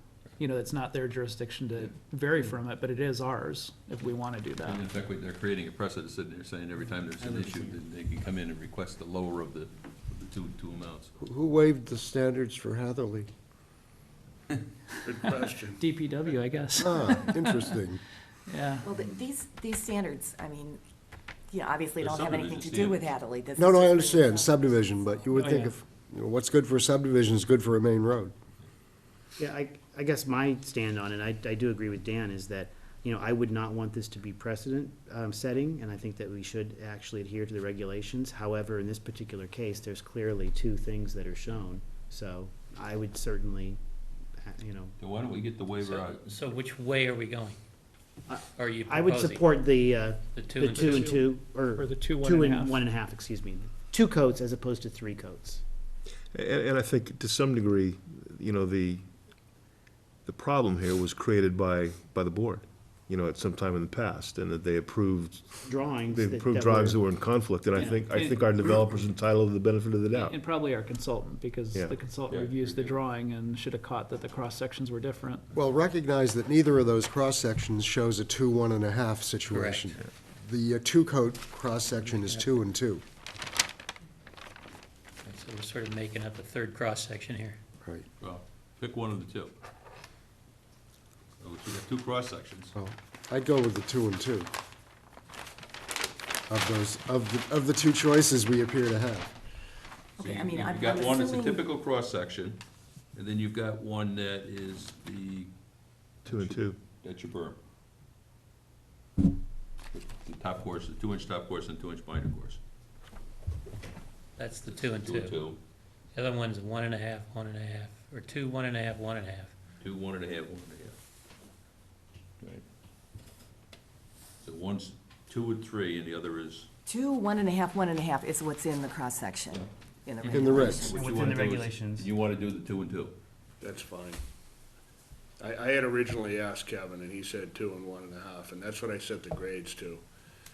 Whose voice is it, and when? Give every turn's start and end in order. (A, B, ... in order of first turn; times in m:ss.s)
0:00.4-0:04.8 A
0:04.6-0:11.1 B
0:11.2-0:13.3 C
0:15.0-0:15.8 D
0:15.8-0:17.4 A
0:16.8-0:18.0 C
0:18.5-0:18.9 A
0:18.8-0:20.8 E
0:21.5-0:25.3 E
0:22.0-0:23.1 B
0:23.6-0:28.3 C
0:25.3-0:25.8 A
0:29.4-0:43.8 F
0:44.4-0:44.9 F
0:45.0-0:46.4 B
0:45.8-0:47.6 G
0:48.3-0:55.6 F
0:48.6-0:49.5 G
0:50.3-0:51.2 G
0:50.8-0:52.8 A
0:56.3-0:59.2 H
1:00.2-1:10.4 H
1:05.6-1:07.1 F
1:07.7-1:08.9 A
1:10.1-1:15.4 A
1:12.2-1:13.0 B
1:15.5-1:23.0 C
1:19.5-1:20.0 G
1:22.0-1:22.5 G
1:25.2-1:27.6 G
1:28.2-1:29.6 B
1:31.4-1:32.7 B
1:32.8-1:34.5 C
1:36.5-1:39.3 C
1:40.2-1:41.6 E
1:40.2-1:42.6 B
1:43.1-1:45.5 B
1:46.2-1:46.8 H
1:46.3-1:47.6 B
1:49.9-1:52.6 B
1:54.4-1:55.5 G
1:54.7-1:55.6 B
1:56.2-1:59.6 G
1:59.8-2:01.0 B
2:04.4-2:06.7 B
2:06.9-2:11.0 E
2:10.3-2:11.0 C
2:10.6-2:13.2 B
2:10.9-2:12.1 F
2:13.6-2:14.2 D
2:15.4-2:20.0 D